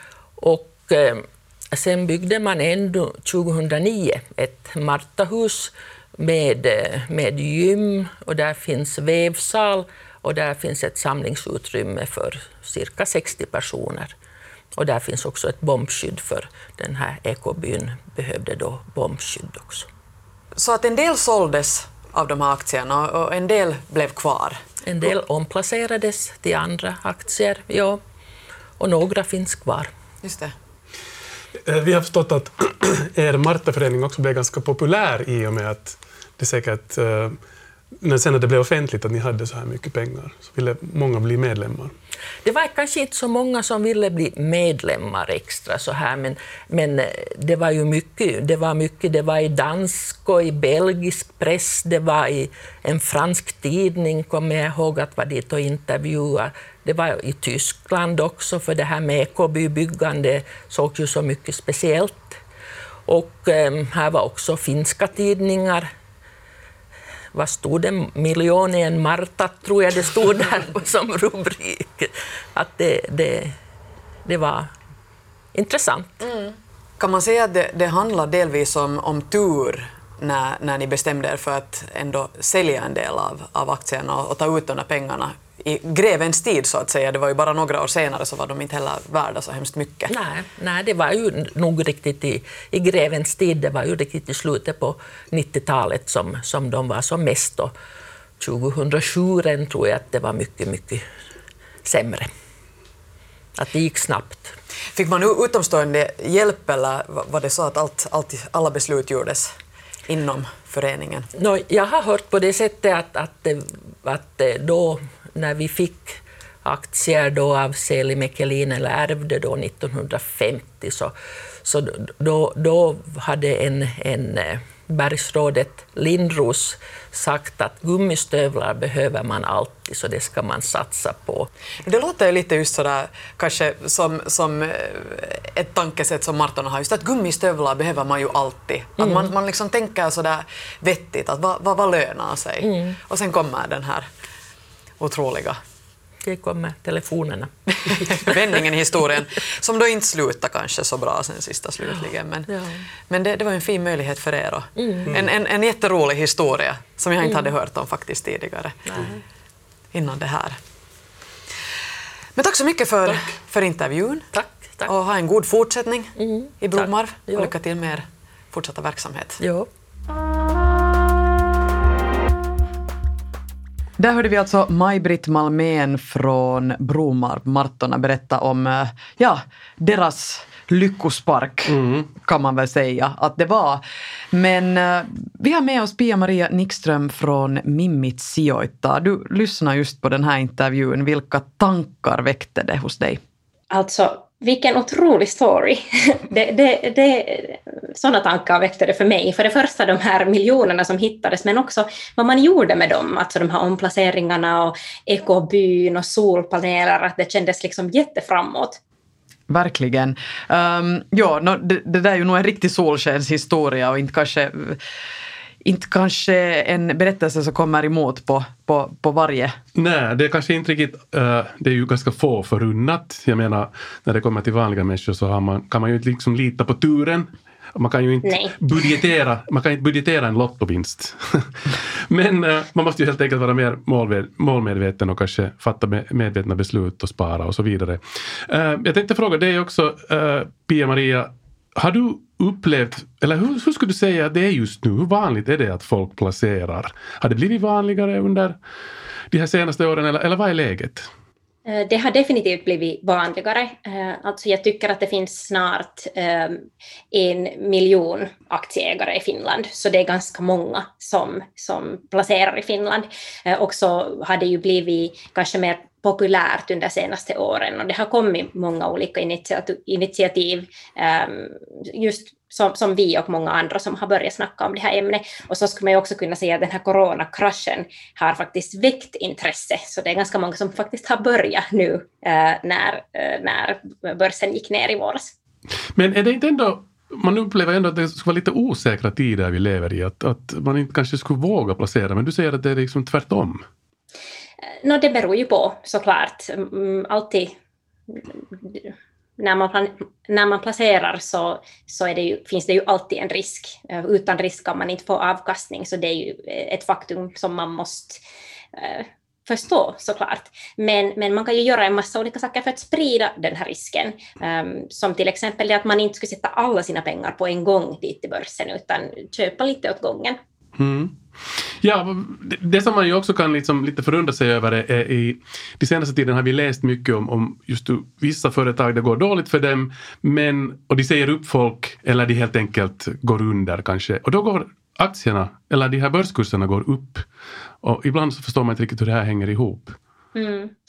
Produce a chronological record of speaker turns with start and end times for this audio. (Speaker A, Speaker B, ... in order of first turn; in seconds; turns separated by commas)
Speaker A: 0.4-14.1, Speaker A: 14.8-19.9, Speaker B: 20.6-24.6, Speaker A: 24.8-28.0, Speaker A: 28.8-29.9, Speaker B: 30.2-30.5, Speaker C: 31.6-37.4, Speaker C: 38.0-41.9, Speaker A: 42.4-62.4, Speaker A: 63.1-65.9, Speaker A: 67.3-73.5, Speaker A: 74.2-74.7, Speaker A: 75.5-76.3, Speaker B: 76.2-90.1, Speaker A: 90.1-97.7, Speaker A: 98.4-101.0, Speaker A: 101.8-102.3, Speaker A: 103.6-104.5, Speaker B: 104.9-109.5, Speaker B: 110.1-111.3, Speaker A: 111.3-131.5, Speaker B: 131.8-144.1, Speaker A: 139.0-139.3, Speaker A: 142.6-143.0, Speaker B: 145.0-145.6, Speaker A: 146.2-148.4, Speaker B: 147.8-159.1, Speaker A: 152.5-152.8, Speaker A: 154.8-155.1, Speaker A: 158.9-159.2, Speaker B: 159.9-160.6, Speaker B: 162.3-164.3, Speaker A: 164.3-164.9, Speaker B: 164.8-169.4, Speaker A: 166.2-167.5, Speaker A: 169.4-169.7, Speaker B: 174.0-193.2, Speaker D: 181.7-182.1, Speaker E: 193.7-208.8, Speaker B: 209.5-214.8, Speaker B: 215.6-219.6, Speaker D: 219.7-248.6, Speaker E: 228.2-228.6, Speaker D: 249.3-251.1, Speaker E: 251.7-285.3, Speaker D: 285.9-293.6, Speaker E: 294.7-297.6, Speaker E: 298.1-308.2, Speaker E: 308.7-320.4, Speaker D: 320.8-337.2, Speaker D: 337.8-339.9, Speaker E: 340.3-340.8